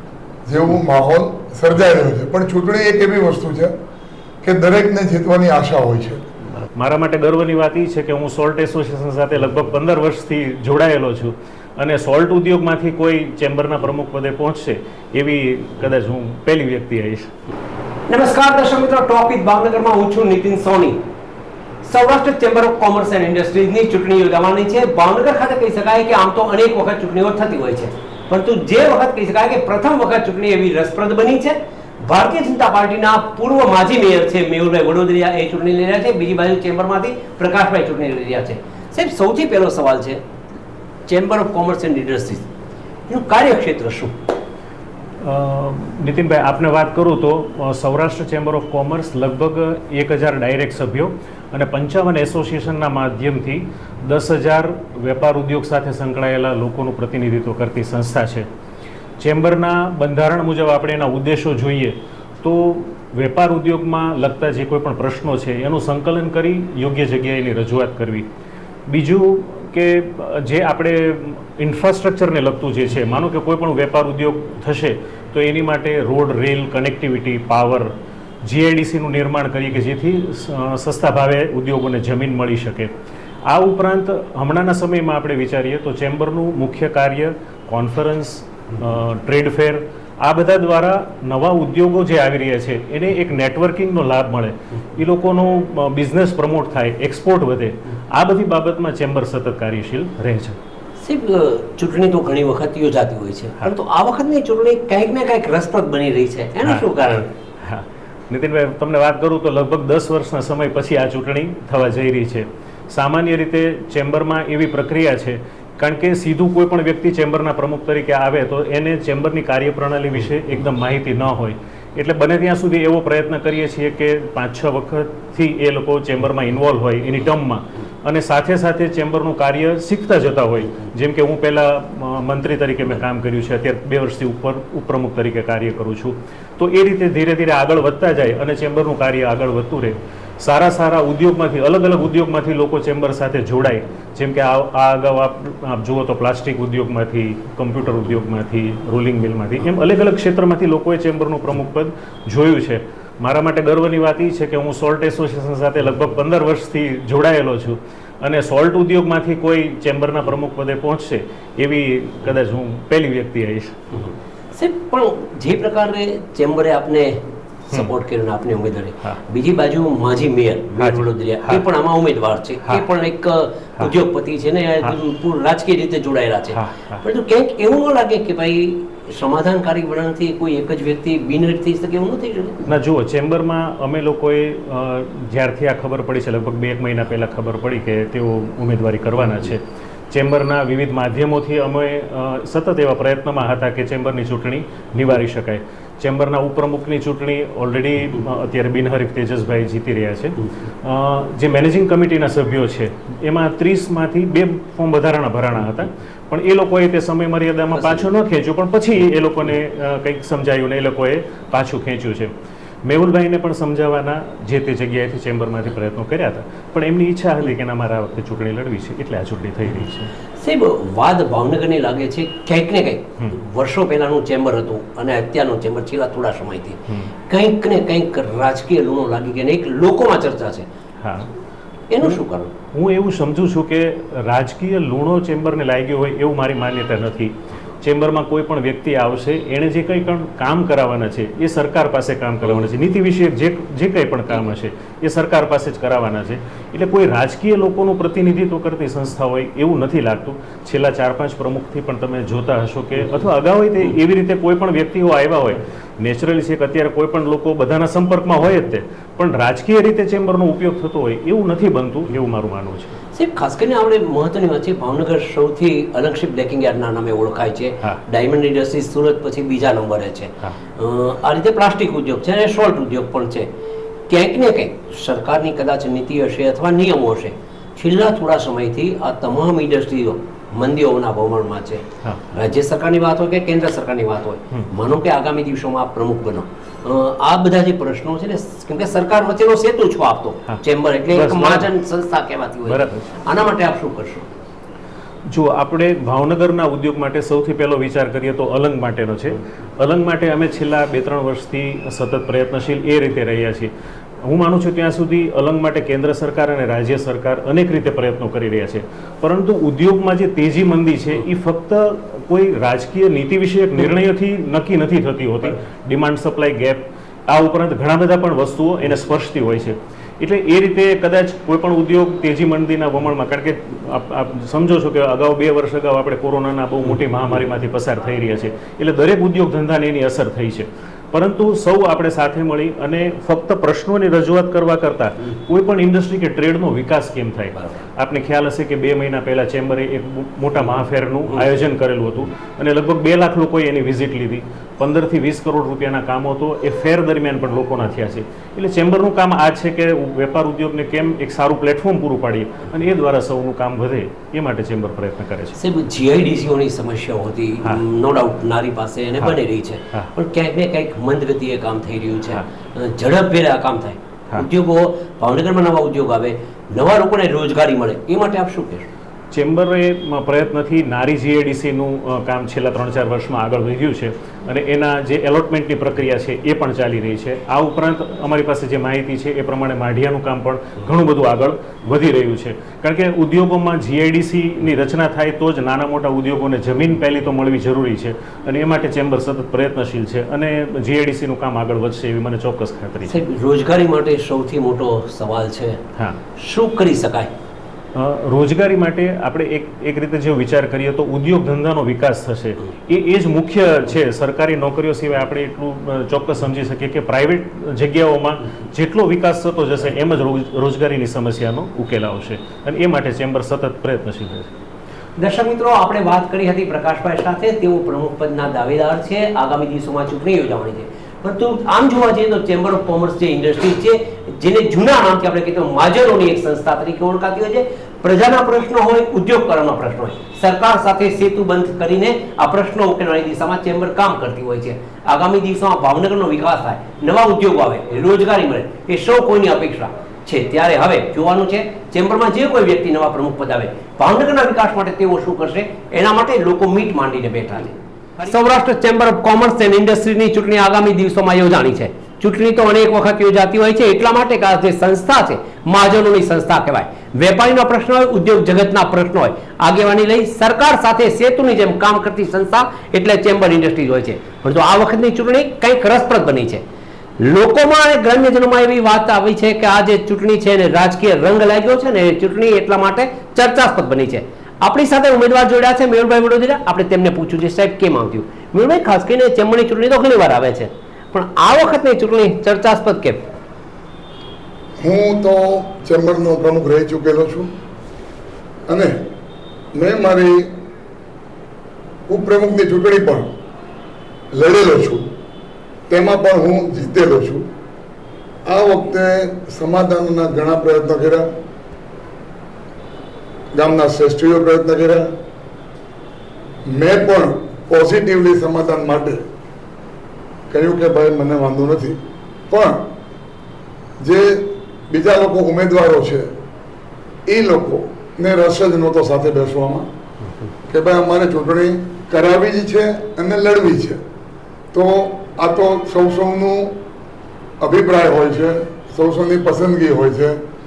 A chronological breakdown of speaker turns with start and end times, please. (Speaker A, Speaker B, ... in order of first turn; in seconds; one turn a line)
Speaker A: 0.5-3.7
Speaker A: 4.4-6.2
Speaker B: 6.8-17.3
Speaker C: 18.1-21.0
Speaker C: 21.9-40.2
Speaker C: 41.1-42.5
Speaker C: 43.1-44.2
Speaker B: 45.2-58.5
Speaker B: 59.2-68.3
Speaker B: 68.9-77.9
Speaker B: 78.5-82.9
Speaker B: 83.5-100.6
Speaker C: 101.0-107.3
Speaker B: 106.7-163.7
Speaker C: 164.5-167.2
Speaker C: 167.7-182.6
Speaker B: 170.8-171.7
Speaker B: 176.5-177.0
Speaker B: 182.7-212.3
Speaker B: 212.8-220.1
Speaker C: 220.4-230.7
Speaker B: 231.0-231.3
Speaker C: 231.9-232.5
Speaker B: 232.7-263.0
Speaker C: 263.1-273.5
Speaker C: 274.1-294.3
Speaker B: 290.5-291.7
Speaker B: 292.6-293.1
Speaker B: 295.3-303.7
Speaker B: 304.2-355.6
Speaker C: 355.6-368.9
Speaker B: 369.3-393.2
Speaker C: 393.1-395.8
Speaker C: 396.4-397.3
Speaker B: 398.0-414.5
Speaker C: 415.2-466.6
Speaker C: 467.2-483.2
Speaker A: 484.8-487.5
Speaker A: 488.7-489.0
Speaker A: 489.8-490.5
Speaker A: 492.1-493.3
Speaker A: 494.3-495.1
Speaker A: 495.9-497.5
Speaker A: 498.5-501.3
Speaker A: 503.5-505.1
Speaker A: 506.7-509.2
Speaker A: 510.5-512.8
Speaker A: 514.0-516.3
Speaker A: 517.3-519.9
Speaker A: 520.7-524.0
Speaker A: 524.7-526.8
Speaker A: 527.6-530.4